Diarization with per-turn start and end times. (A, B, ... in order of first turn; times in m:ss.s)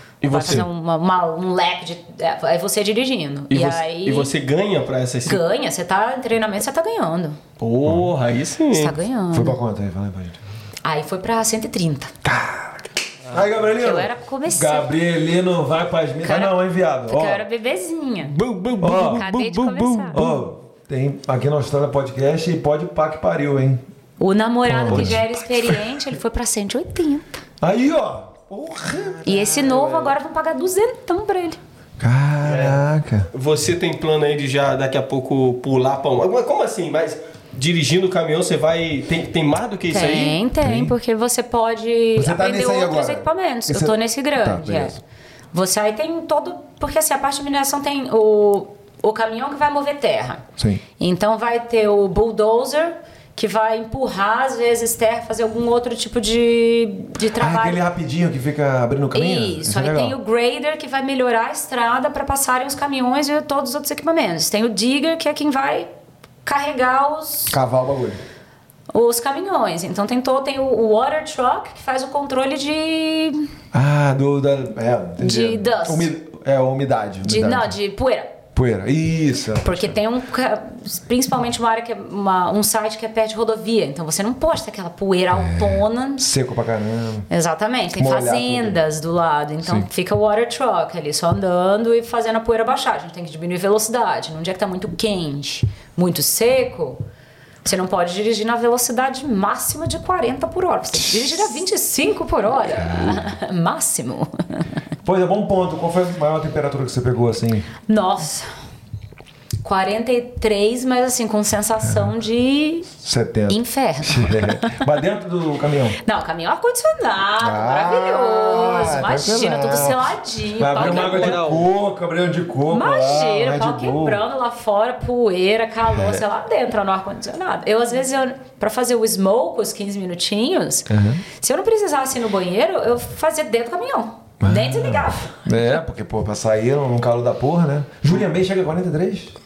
0:00.2-0:00.6 A
0:00.3-0:04.3 B
0:03.5-0:05.4 A
0:05.2-0:07.4 B
0:07.6-0:09.0 A
0:07.8-0:08.1 C
0:08.7-0:09.6 B
0:09.3-0:10.4 C
0:10.8-0:12.1 B
0:12.2-0:17.4 C
0:13.7-0:14.9 B
0:16.2-0:20.3 B
0:18.2-0:20.3 A
0:18.8-0:19.3 C
0:20.1-0:23.8 C
0:24.2-0:27.4 B
0:24.6-0:25.8 C
0:27.6-0:29.7 C
0:29.2-0:31.6 B
0:29.7-0:30.1 A
0:32.0-0:33.3 C
0:32.4-0:32.8 A
0:33.3-0:40.4 A
0:39.9-0:45.0 B
0:40.6-0:40.9 C
0:42.2-0:45.0 C
0:45.5-0:50.4 B
0:50.6-0:50.8 C
0:51.0-0:57.8 B
0:57.4-1:00.2 C
0:59.1-1:05.9 B
1:06.4-1:07.6 B
1:07.5-1:08.2 C
1:08.9-1:13.5 B
1:13.7-1:17.7 C
1:15.2-1:16.1 B
1:17.2-1:18.3 B
1:18.5-1:20.0 C
1:19.6-1:26.3 B
1:25.3-1:27.3 C
1:27.3-1:37.0 B
1:28.0-1:28.8 C
1:37.6-1:44.6 B
1:42.7-1:43.3 C
1:45.0-1:47.7 C
1:47.9-1:48.5 B
1:49.6-1:52.9 B
1:51.8-1:52.1 C
1:53.0-1:56.0 C
1:53.5-1:54.8 B
1:56.0-2:01.4 B
1:57.4-2:04.2 C
2:00.7-2:01.7 A
2:02.7-2:15.6 B
2:05.9-2:06.2 C
2:10.9-2:11.2 C
2:14.4-2:19.3 C